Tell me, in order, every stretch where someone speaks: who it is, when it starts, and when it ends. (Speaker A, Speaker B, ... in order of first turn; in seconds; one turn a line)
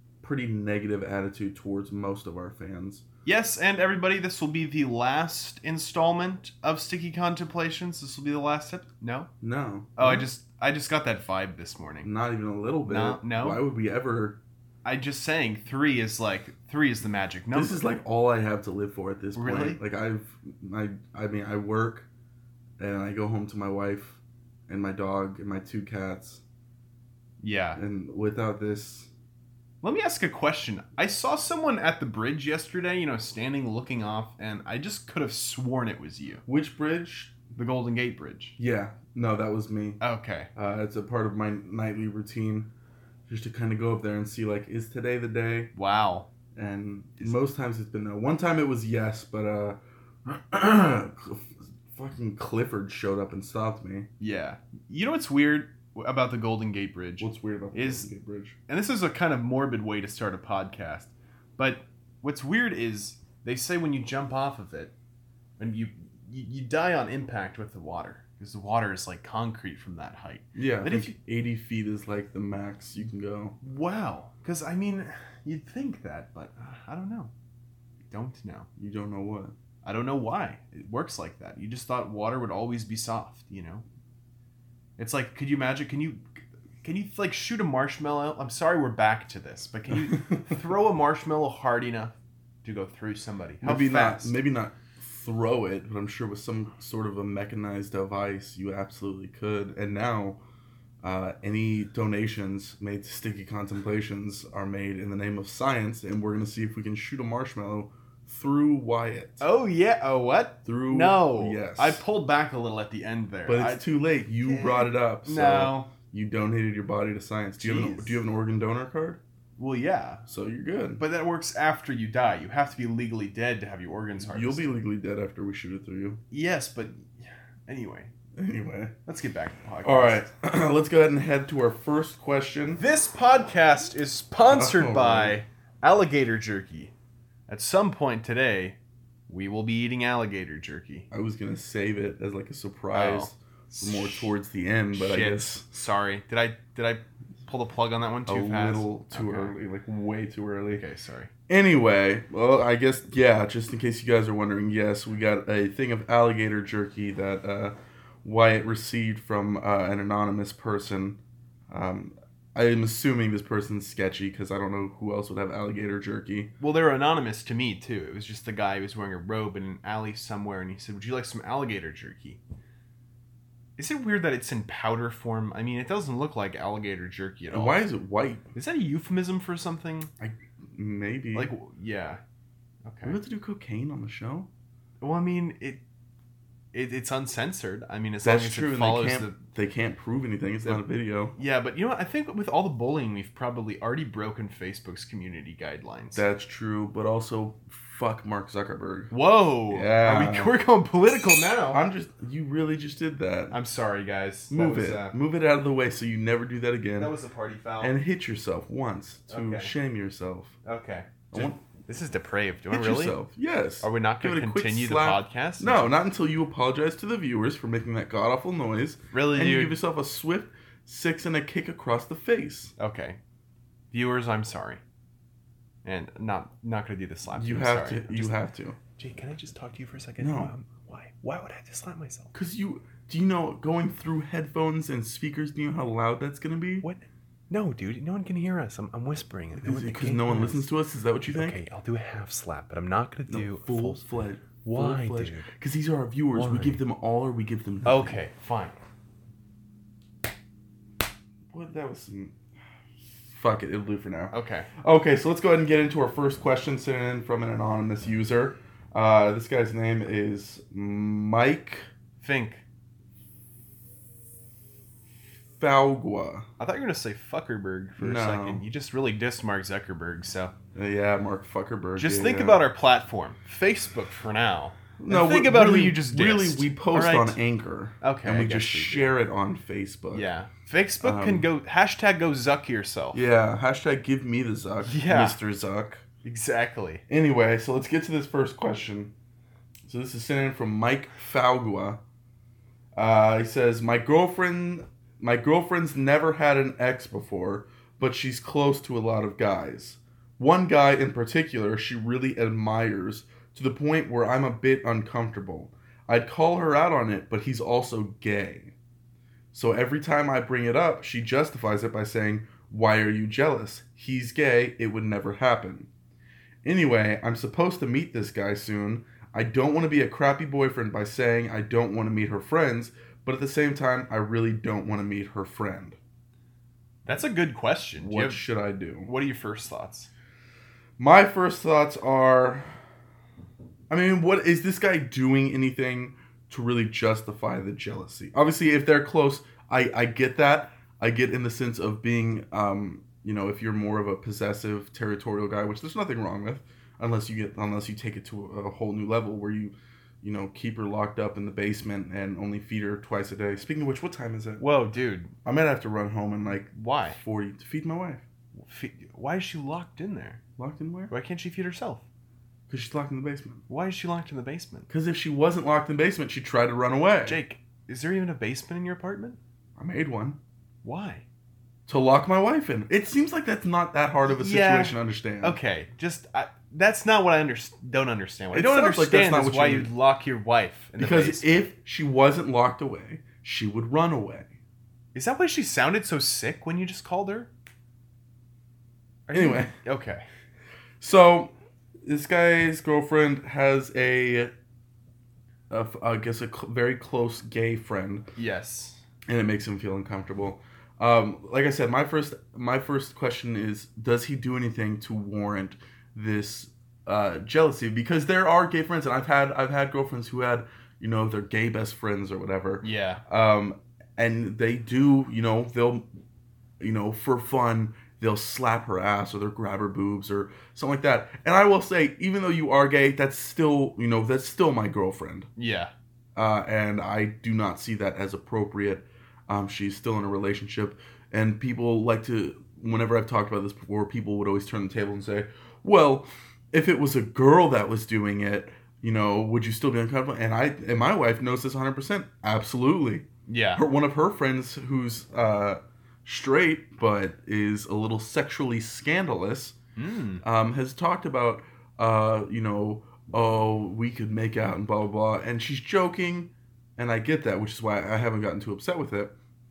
Speaker A: 0.2-3.0
Speaker B: 3.2-9.3
Speaker A: 9.4-10.2
Speaker B: 9.9-12.1
Speaker A: 12.0-14.4
Speaker B: 12.9-13.6
Speaker B: 14.8-17.8
Speaker A: 17.5-22.1
Speaker B: 19.4-19.8
Speaker A: 22.8-26.4
Speaker B: 27.4-27.8
Speaker A: 27.8-29.1
Speaker B: 29.8-36.4
Speaker A: 36.5-37.4
Speaker B: 37.5-38.6
Speaker A: 38.6-40.0
Speaker B: 40.0-40.5
Speaker A: 40.5-42.7
Speaker A: 43.3-45.7
Speaker B: 45.7-46.3
Speaker A: 46.5-54.1
Speaker B: 54.2-58.1
Speaker A: 57.2-58.6
Speaker B: 58.7-64.9
Speaker B: 65.6-71.1
Speaker A: 70.5-73.6
Speaker B: 73.6-77.3
Speaker B: 78.1-78.7
Speaker A: 78.8-79.5
Speaker B: 79.8-83.8
Speaker B: 85.0-94.3
Speaker A: 93.6-100.4
Speaker A: 101.0-109.4
Speaker B: 109.4-113.8
Speaker A: 110.6-112.0
Speaker A: 113.5-119.2
Speaker B: 114.4-115.9
Speaker B: 117.6-118.2
Speaker B: 119.6-120.2
Speaker A: 120.3-121.0
Speaker B: 121.0-124.6
Speaker A: 124.2-126.2
Speaker B: 126.3-128.1
Speaker A: 128.3-128.9
Speaker B: 129.1-130.3
Speaker A: 129.8-132.8
Speaker B: 132.8-136.9
Speaker A: 134.5-135.4
Speaker B: 137.5-138.8
Speaker B: 139.3-141.1
Speaker A: 141.1-145.7
Speaker B: 142.9-144.3
Speaker B: 144.9-149.5
Speaker A: 148.3-150.8
Speaker B: 150.8-151.3
Speaker A: 151.5-161.2
Speaker A: 161.7-166.5
Speaker B: 166.6-172.4
Speaker B: 173.8-177.8
Speaker A: 177.5-178.4
Speaker B: 178.5-180.1
Speaker A: 180.2-181.5
Speaker B: 181.3-182.2
Speaker B: 182.8-183.2
Speaker A: 183.0-184.5
Speaker B: 185.0-185.8
Speaker B: 186.7-189.4
Speaker A: 188.2-191.3
Speaker B: 191.3-196.2
Speaker A: 196.1-199.1
Speaker B: 199.1-201.8
Speaker A: 199.7-200.5
Speaker A: 201.7-203.5
Speaker B: 203.5-205.2
Speaker A: 204.5-207.1
Speaker B: 207.0-207.9
Speaker A: 207.8-210.5
Speaker B: 209.3-209.7
Speaker B: 210.6-213.2
Speaker A: 211.3-211.6
Speaker A: 212.7-222.7
Speaker B: 213.8-215.9
Speaker B: 219.1-219.8
Speaker B: 222.8-223.2
Speaker B: 223.9-224.8
Speaker B: 225.8-228.4
Speaker A: 227.3-228.8
Speaker B: 229.0-232.3
Speaker A: 230.2-230.5
Speaker A: 232.3-236.8
Speaker B: 236.8-240.7
Speaker A: 239.6-241.6
Speaker B: 241.2-244.1
Speaker A: 243.3-248.2
Speaker B: 244.6-245.5
Speaker B: 246.3-246.8
Speaker B: 247.8-248.8
Speaker A: 251.5-252.3
Speaker A: 253.3-261.9
Speaker B: 254.3-254.7
Speaker B: 262.2-262.6
Speaker A: 265.6-266.5
Speaker B: 266.6-270.5
Speaker A: 268.0-268.6
Speaker A: 270.7-272.6
Speaker B: 272.0-277.4
Speaker A: 275.0-280.3
Speaker B: 278.0-279.1
Speaker B: 280.1-283.2
Speaker A: 281.0-281.5
Speaker A: 283.1-286.0
Speaker B: 284.9-285.4
Speaker B: 286.2-287.0
Speaker A: 287.1-289.1
Speaker A: 289.9-292.0
Speaker A: 292.9-308.7
Speaker A: 309.5-315.9
Speaker A: 316.6-326.0
Speaker B: 327.1-328.4
Speaker A: 328.0-329.1
Speaker B: 329.0-330.1
Speaker A: 331.0-332.7
Speaker A: 333.9-354.6
Speaker B: 354.6-355.3
Speaker A: 355.4-358.2
Speaker B: 356.7-357.2
Speaker B: 358.7-360.4
Speaker A: 360.6-361.1
Speaker B: 361.1-362.0
Speaker A: 362.7-363.6
Speaker B: 363.7-364.9
Speaker A: 364.9-367.4
Speaker B: 367.2-369.4
Speaker A: 369.8-370.4
Speaker B: 370.8-371.2
Speaker A: 371.9-375.6
Speaker B: 374.2-381.6
Speaker A: 378.5-379.9
Speaker A: 381.0-384.5
Speaker B: 385.1-387.5
Speaker B: 389.3-390.2
Speaker A: 389.3-389.7
Speaker A: 391.0-391.5
Speaker A: 392.0-394.5
Speaker A: 395.7-398.3
Speaker B: 398.4-399.0
Speaker A: 399.3-416.1
Speaker B: 412.8-413.2
Speaker A: 416.8-425.5
Speaker B: 425.6-425.9
Speaker A: 426.4-449.8
Speaker B: 443.5-443.8
Speaker B: 449.9-450.4
Speaker A: 450.4-459.3